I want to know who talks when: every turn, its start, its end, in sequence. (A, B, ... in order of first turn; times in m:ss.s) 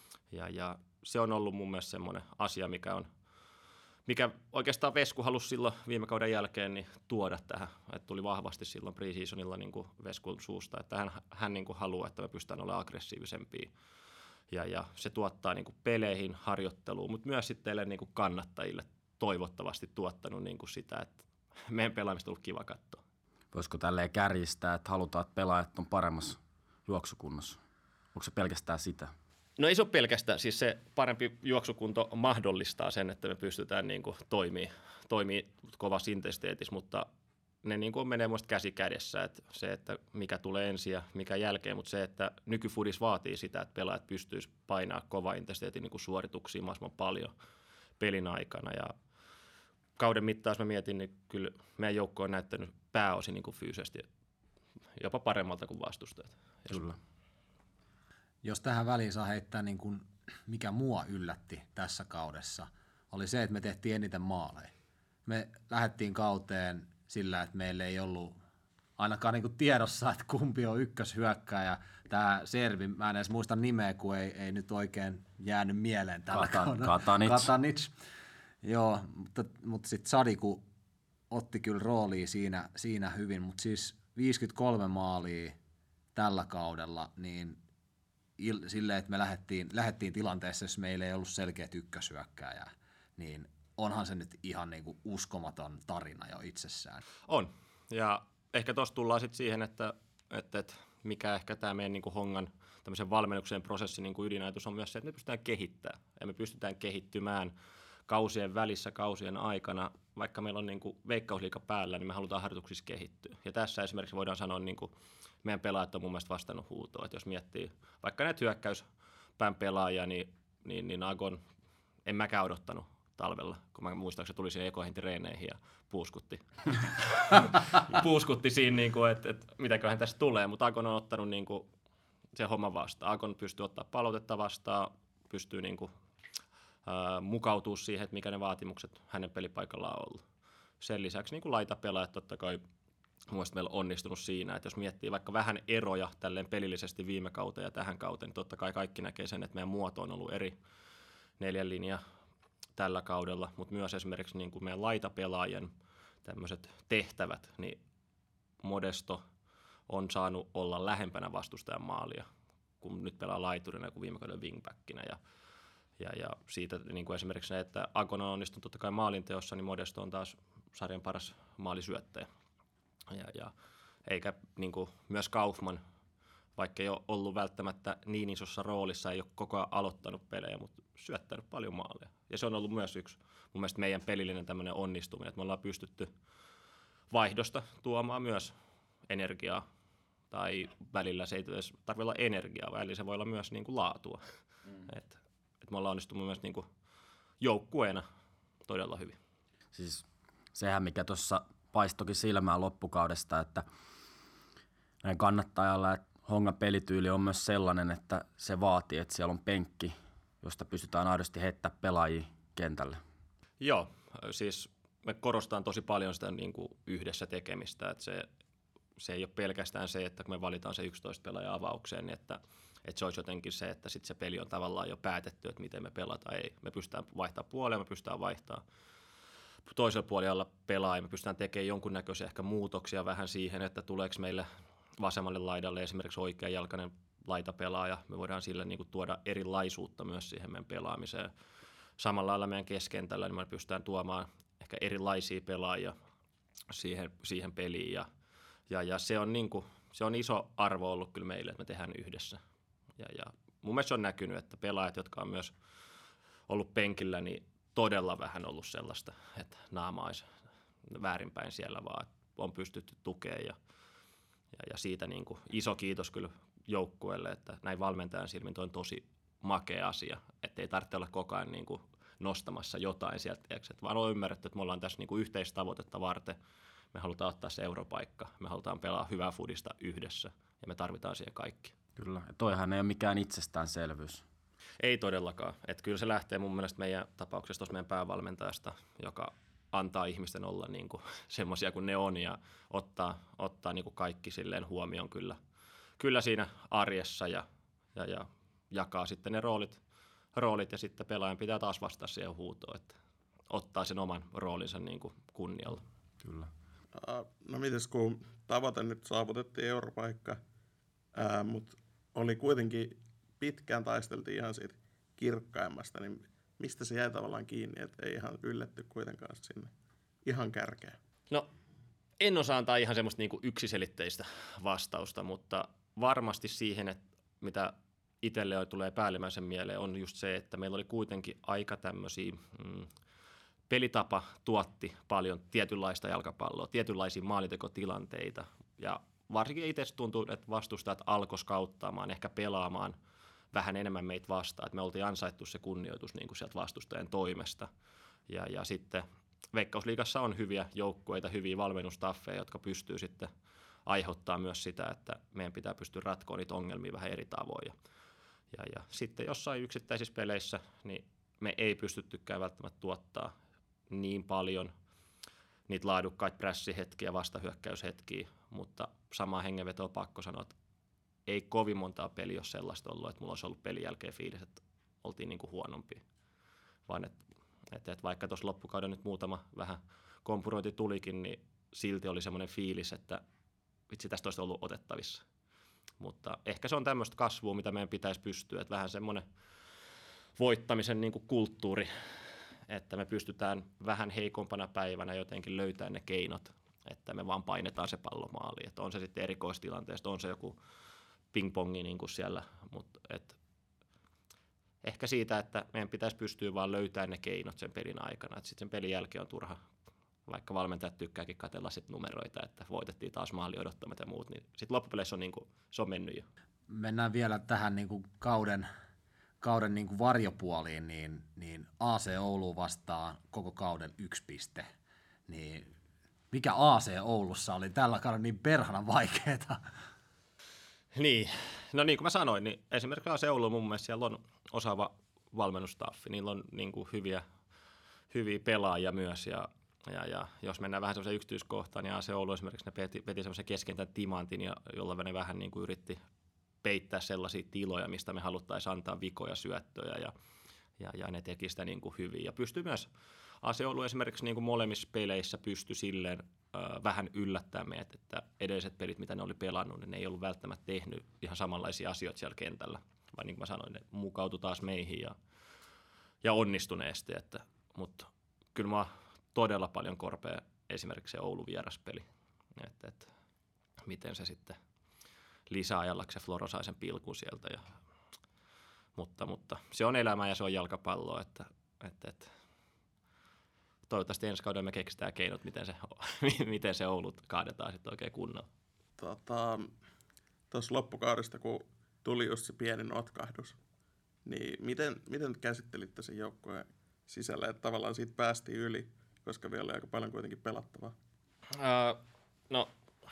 0:00.3-0:03.1 A
0:04.1-0:13.7 A
0:14.5-0:21.1 A
0:21.7-0:23.0 A
0:23.5-0:27.6 B
0:28.1-0:29.1 B
0:29.6-0:37.1 A
0:37.6-0:47.3 A
0:48.0-0:48.9 A
0:50.0-0:54.1 A
0:55.0-0:56.9 A
0:56.7-0:57.0 B
0:58.4-1:04.7 C
1:05.3-1:08.4 C
1:09.0-1:17.9 C
1:16.3-1:17.5 B
1:18.6-1:20.6 C
1:21.3-1:25.6 C
1:26.2-1:27.6 C
1:28.4-1:37.0 C
1:37.3-1:47.5 A
1:48.1-1:54.9 A
1:55.4-1:58.8 A
1:59.4-2:01.4 A
2:02.1-2:11.7 A
2:12.3-2:15.9 A
2:16.9-2:20.2 A
2:20.8-2:22.6 A
2:23.3-2:30.6 A
2:31.4-2:32.0 A
2:32.8-2:35.7 A
2:36.2-2:37.8 A
2:38.6-2:39.2 A
2:39.9-2:42.3 A
2:42.8-2:45.2 A
2:46.0-2:52.3 A
2:53.1-2:53.5 A
2:54.1-2:55.8 A
2:56.6-3:06.1 A
3:07.1-3:08.5 A
3:09.1-3:09.6 A
3:10.3-3:14.2 A
3:14.9-3:16.7 A
3:17.4-3:18.0 A
3:18.7-3:19.2 A
3:19.7-3:23.6 B
3:25.0-3:33.0 B
3:33.6-3:38.3 A
3:39.0-3:48.6 A
3:49.7-4:01.3 A
4:02.0-4:06.0 A
4:06.7-4:08.1 A
4:08.7-4:12.4 A
4:13.0-4:15.5 A
4:16.5-4:20.3 A
4:20.9-4:23.6 A
4:24.5-4:36.4 A
4:36.9-4:41.7 A
4:42.0-4:44.2 B
4:44.8-4:55.4 A
4:56.0-4:59.8 A
5:00.3-5:03.0 A
5:03.5-5:05.8 A
5:06.2-5:06.5 B
5:07.0-5:10.4 D
5:11.2-5:19.7 D
5:20.2-5:21.0 D
5:22.2-5:32.9 A
5:33.7-5:43.0 A
5:43.5-5:47.7 A
5:48.3-5:53.3 A
5:53.9-5:57.7 A
5:58.5-6:03.3 A
6:03.9-6:04.7 A
6:05.7-6:10.5 A
6:11.3-6:16.0 A
6:16.9-6:17.2 A
6:17.7-6:23.2 A
6:23.9-6:25.2 A
6:26.0-6:29.2 A
6:30.4-6:31.9 A
6:32.7-6:40.6 A
6:41.3-6:43.4 A
6:44.8-6:49.6 A
6:50.3-6:56.2 A
6:56.7-6:58.7 C
6:59.4-7:04.7 C
7:05.3-7:05.7 C
7:06.3-7:09.6 C
7:11.0-7:17.2 A
7:18.1-7:26.0 A
7:26.6-7:30.1 A
7:30.8-7:32.9 A
7:33.4-7:45.1 A
7:46.2-7:52.0 A
7:52.6-7:53.1 A
7:53.8-7:54.6 A
7:55.5-7:57.6 A
7:59.0-8:02.3 A
8:03.9-8:08.5 A
8:09.0-8:09.7 D
8:10.5-8:13.6 D
8:14.3-8:20.9 D
8:21.6-8:22.7 A